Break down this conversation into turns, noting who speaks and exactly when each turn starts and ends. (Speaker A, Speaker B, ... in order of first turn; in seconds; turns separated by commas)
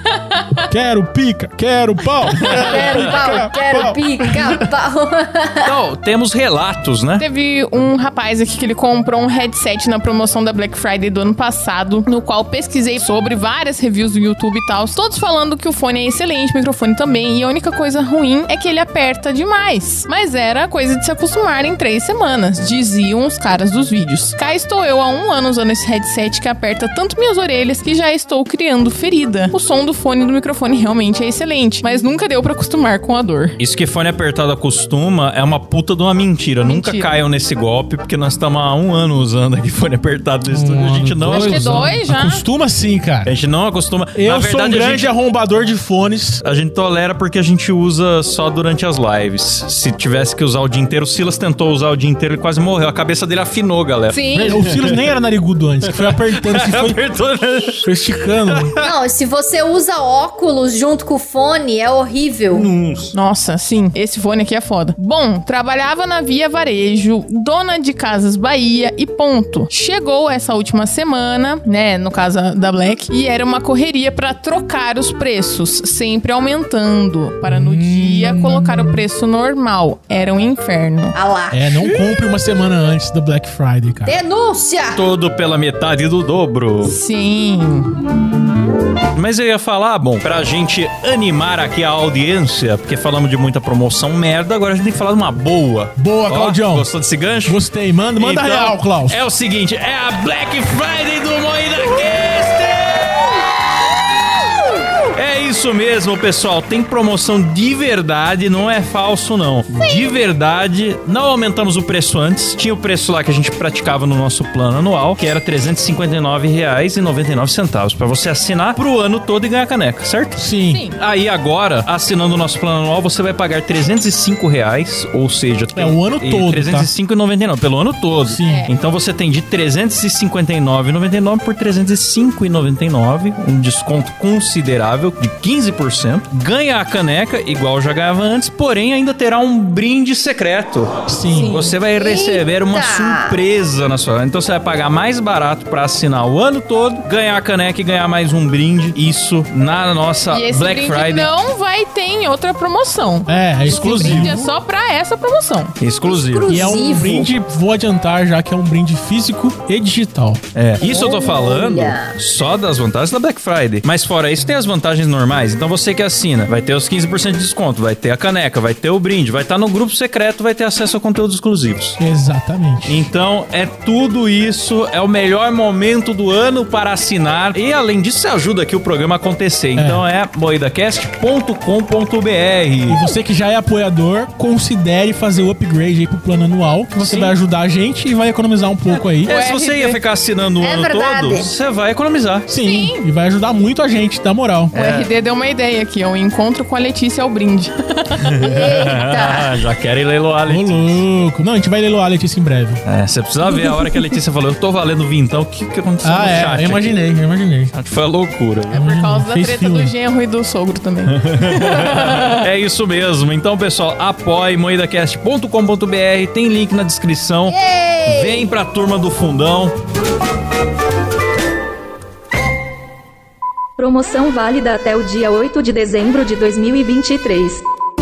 Speaker A: 0.1-0.7, Speaker B: 0.7-4.3, Speaker C: 2.4-3.1, Speaker D: 2.5-5.7, Speaker C: 5.6-7.2, Speaker A: 7.2-33.5, Speaker C: 33.6-41.9, Speaker A: 36.6-37.1, Speaker B: 40.5-43.3, Speaker A: 41.2-42.4, Speaker C: 43.2-45.1, Speaker B: 44.1-46.4, Speaker C: 46.4-55.0, Speaker A: 54.1-54.6, Speaker B: 54.3-57.0, Speaker C: 55.9-57.9, Speaker B: 57.8-58.7, Speaker C: 58.5-58.9, Speaker D: 58.8-62.7, Speaker C: 62.5-63.1, Speaker A: 63.1-81.1, Speaker B: 77.4-79.0, Speaker D: 81.1-82.0, Speaker B: 81.5-84.2, Speaker D: 84.0-85.0, Speaker C: 84.9-86.9, Speaker A: 86.8-87.9, Speaker C: 89.1-97.6, Speaker B: 96.0-96.9, Speaker B: 97.4-99.2, Speaker C: 98.2-103.5, Speaker C: 105.1-120.4, Speaker B: 120.3-120.8, Speaker A: 120.7-121.0, Speaker C: 121.0-151.3, Speaker B: 125.7-126.9, Speaker B: 128.2-128.7, Speaker A: 128.4-128.7, Speaker B: 141.1-141.6, Speaker A: 141.3-141.8, Speaker D: 141.9-143.4, Speaker A: 150.3-155.7, Speaker B: 153.3-154.5, Speaker C: 153.8-154.4, Speaker C: 155.8-156.5, Speaker D: 156.0-157.3, Speaker B: 156.5-160.4, Speaker C: 160.5-172.0, Speaker D: 160.8-162.1, Speaker B: 172.0-173.1, Speaker C: 172.8-183.0, Speaker B: 179.8-180.0, Speaker B: 182.9-189.3, Speaker A: 187.0-187.3, Speaker C: 189.2-192.5, Speaker A: 189.3-190.0, Speaker D: 190.6-191.5, Speaker B: 192.5-194.7, Speaker A: 192.6-193.0, Speaker C: 194.7-195.1, Speaker A: 194.7-198.3, Speaker C: 198.2-201.0, Speaker D: 198.4-199.6, Speaker B: 200.5-202.8, Speaker C: 202.8-207.0, Speaker A: 203.6-203.9, Speaker B: 206.0-207.7, Speaker C: 207.7-208.8, Speaker B: 208.7-209.9, Speaker A: 208.7-212.4, Speaker C: 211.1-219.7, Speaker D: 217.5-218.4, Speaker E: 223.8-227.6